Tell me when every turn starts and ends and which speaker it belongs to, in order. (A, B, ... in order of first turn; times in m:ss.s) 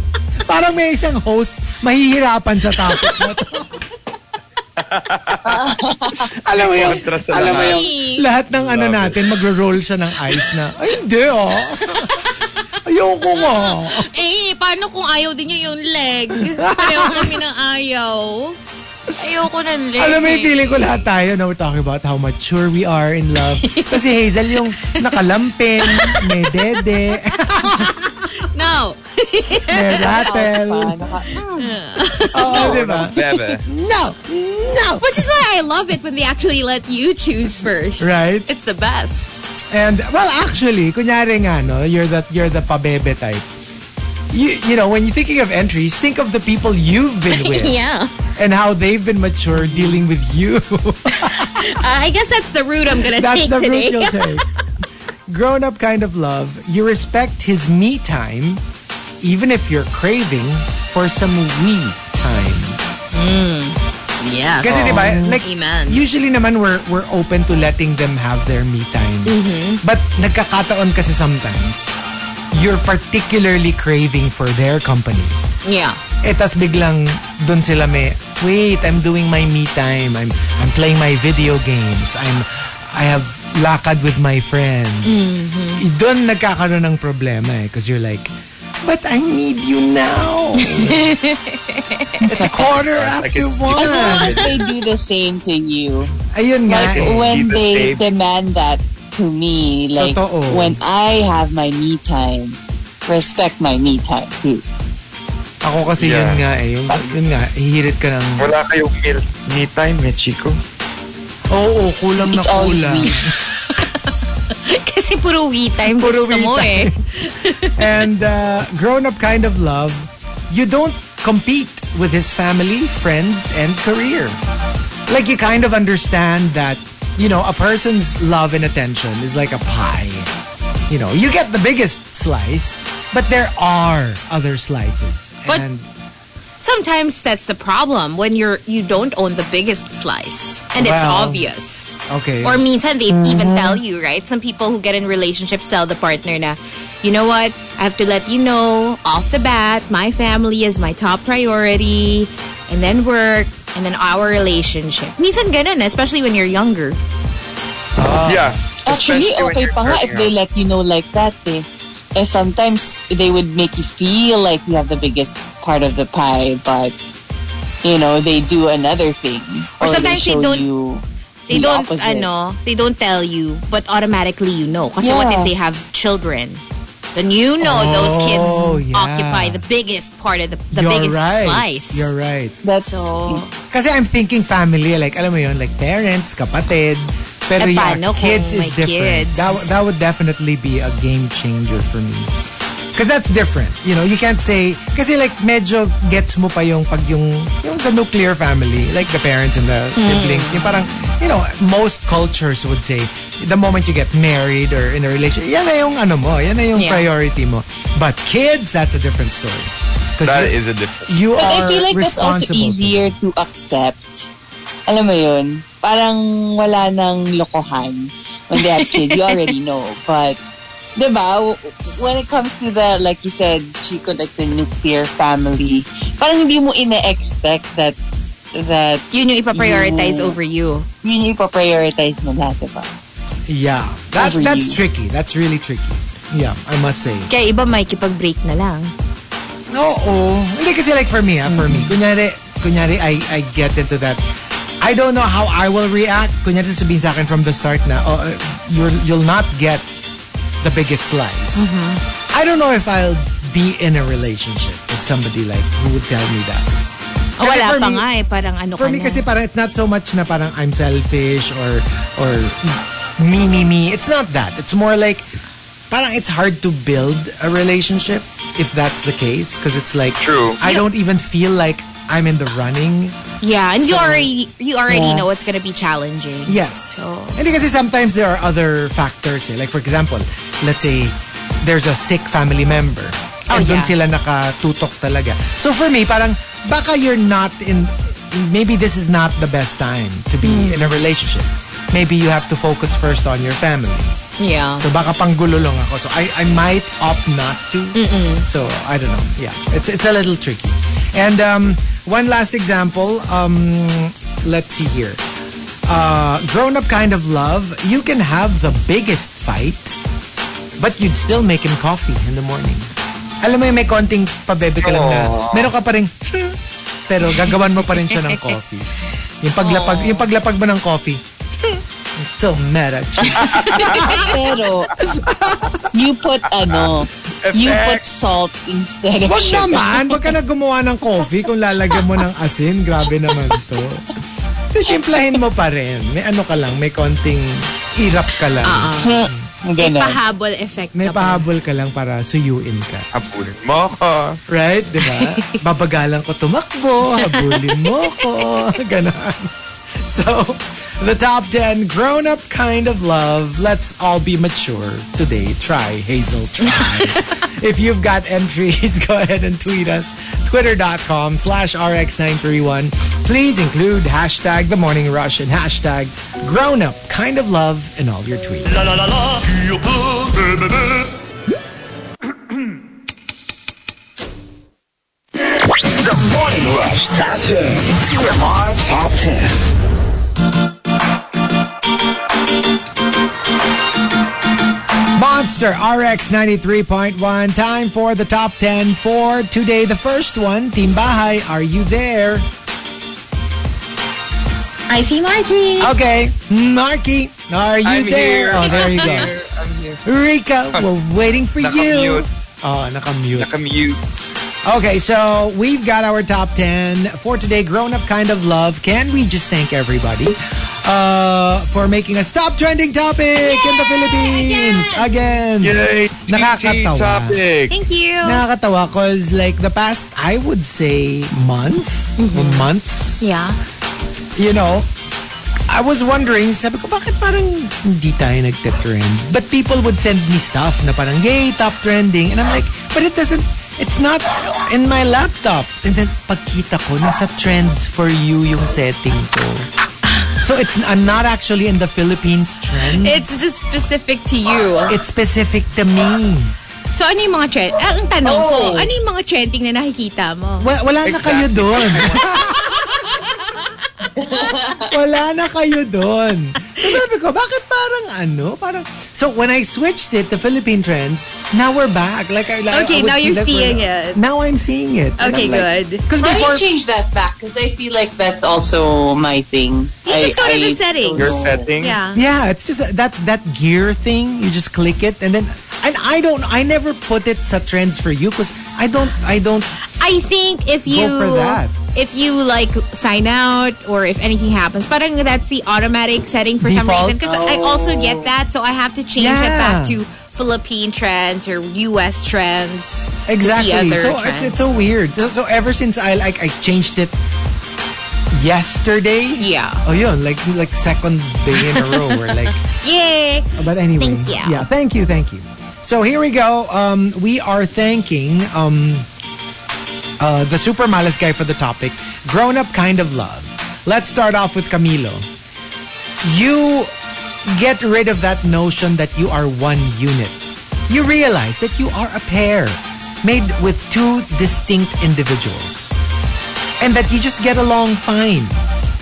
0:00.5-0:03.8 A
0:04.8-0:05.6 B
0:05.4-0:06.3 C
0:06.4-0:12.2 A
0:06.5-0:07.8 B
0:07.3-0:08.3 D
0:08.5-0:09.2 B
0:11.8-0:12.4 D
0:12.8-0:14.1 A
0:13.3-0:18.6 D
0:16.3-0:17.3 A
0:19.2-0:21.0 D
0:20.0-0:28.0 A
0:23.5-0:25.3 D
0:25.8-0:26.6 D
0:27.2-0:30.2 D
0:29.7-0:31.1 A
0:30.0-0:31.5 C
0:31.3-0:33.0 D
0:32.3-0:35.2 A
0:32.4-0:33.6 B
0:35.0-0:39.4 D
0:38.0-0:38.5 A
0:39.7-0:43.4 A
0:44.3-0:47.8 A
0:47.3-0:48.1 D
0:48.3-0:51.8 A
0:49.5-0:50.0 D
0:51.1-0:54.4 D
0:52.9-0:54.4 A
0:55.3-0:58.6 A
0:59.2-1:02.8 A
1:03.1-1:06.0 D
1:04.6-1:11.9 A
1:09.2-1:09.8 D
1:12.5-1:15.4 A
1:15.6-1:16.0 D
1:16.2-1:25.2 A
1:25.0-1:25.8 D
1:25.8-1:31.1 A
1:30.6-1:32.3 D
1:32.2-1:34.4 A
1:32.6-1:34.5 B
1:33.8-1:34.8 D
1:33.8-1:36.1 C
1:36.2-1:37.3 A
1:36.6-1:44.6 C
1:36.8-1:38.0 B
1:40.0-1:40.8 A
1:45.6-1:48.5 A
1:46.0-1:46.4 B
1:48.4-1:50.6 B
1:51.5-1:53.3 A
1:52.2-1:53.2 C
1:53.5-1:57.8 D
1:55.8-1:57.0 A
1:57.8-2:04.4 A
2:05.1-2:10.3 A
2:10.9-2:15.9 A
2:16.6-2:21.9 D
2:20.8-2:21.4 A
2:22.1-2:23.8 A
2:22.4-2:37.0 D
2:38.0-2:38.6 A
2:38.2-2:40.3 B
2:38.8-2:46.9 C
2:47.8-2:52.3 C
2:49.8-2:50.6 D
2:51.5-2:56.6 D
2:55.0-2:55.5 C
2:57.1-3:02.1 D
2:57.6-2:59.6 A
3:00.7-3:02.6 A
3:02.6-3:03.4 C
3:02.8-3:03.6 D
3:03.7-3:12.3 A
3:07.6-3:09.8 D
3:12.9-3:30.5 A
3:20.0-3:21.1 D
3:26.7-3:27.1 D
3:30.2-3:31.5 B
3:31.1-3:33.2 A
3:31.4-3:34.3 C
3:34.9-3:40.4 C
3:38.6-3:39.5 D
3:41.0-3:48.0 C
3:48.5-3:50.4 C
3:49.1-3:50.9 D
3:51.0-3:52.9 C
3:53.5-3:57.3 A
3:54.2-3:54.8 C
3:57.3-3:58.9 D
3:59.7-4:04.2 A
4:01.5-4:01.8 D
4:04.8-4:09.9 A
4:10.6-4:11.7 A
4:11.5-4:12.0 D
4:12.3-4:16.7 A
4:17.4-4:19.2 D
4:17.4-4:18.0 A
4:18.8-4:25.2 A
4:25.9-4:33.2 A
4:30.2-4:30.6 B
4:33.4-4:37.4 D
4:33.8-4:34.3 A
4:36.4-4:54.1 A
4:43.5-4:43.9 D
4:50.4-4:51.0 D
4:54.4-4:54.9 D
4:54.8-5:05.2 A
4:57.9-4:58.4 D
5:05.9-5:09.9 A
5:10.8-5:12.9 A
5:13.4-5:16.6 A
5:14.8-5:15.7 B
5:17.1-5:24.2 A
5:17.3-5:18.5 D
5:19.6-5:20.3 D
5:23.2-5:24.0 B
5:23.3-5:24.2 D
5:24.1-5:24.9 C
5:25.0-5:25.8 A
5:25.9-5:29.9 C
5:26.4-5:28.0 B
5:29.2-5:34.1 A
5:34.7-5:39.5 A
5:38.6-5:41.4 D
5:39.6-5:40.2 C
5:40.9-5:43.1 A
5:43.1-5:44.4 B
5:44.5-6:08.7 A
5:45.0-5:45.6 D
5:47.1-5:48.6 D
5:56.6-5:57.3 D
6:08.7-6:11.1 E
6:15.9-6:19.5 E
6:25.2-6:32.5 A
6:34.9-6:35.9 D
6:35.8-6:39.3 A
6:37.8-6:40.0 B
6:38.6-6:39.2 D
6:40.0-6:43.5 A
6:41.6-6:42.2 B
6:43.4-6:44.0 B
6:44.6-6:57.4 A
6:53.4-6:55.2 D
6:55.6-6:57.7 B
6:57.7-6:58.4 D
6:58.2-7:03.2 A
7:02.2-7:03.6 D
7:04.4-7:04.9 A
7:05.7-7:19.7 A
7:20.4-7:23.2 A
7:22.8-7:25.0 D
7:24.9-7:26.5 A
7:26.9-7:30.7 D
7:28.2-7:28.9 C
7:30.6-7:32.6 A
7:31.0-7:32.5 B
7:32.2-7:33.3 D
7:34.1-7:34.9 C
7:34.9-7:46.6 A
7:42.7-7:44.2 D
7:45.2-7:46.0 D
7:46.2-7:51.7 C
7:50.0-7:52.2 D
7:51.2-7:52.0 B
7:52.1-7:59.7 A
8:00.0-8:14.7 D
8:00.8-8:01.7 A
8:06.6-8:07.2 A
8:07.2-8:08.3 C
8:09.2-8:10.0 A
8:13.3-8:17.2 A
8:18.3-8:22.6 A
8:19.4-8:19.8 D
8:21.6-8:24.6 D
8:23.6-8:29.1 A
8:30.2-8:35.3 A
8:36.2-8:36.9 A
8:37.4-8:40.4 A
8:40.9-8:45.9 A
8:46.8-8:48.6 A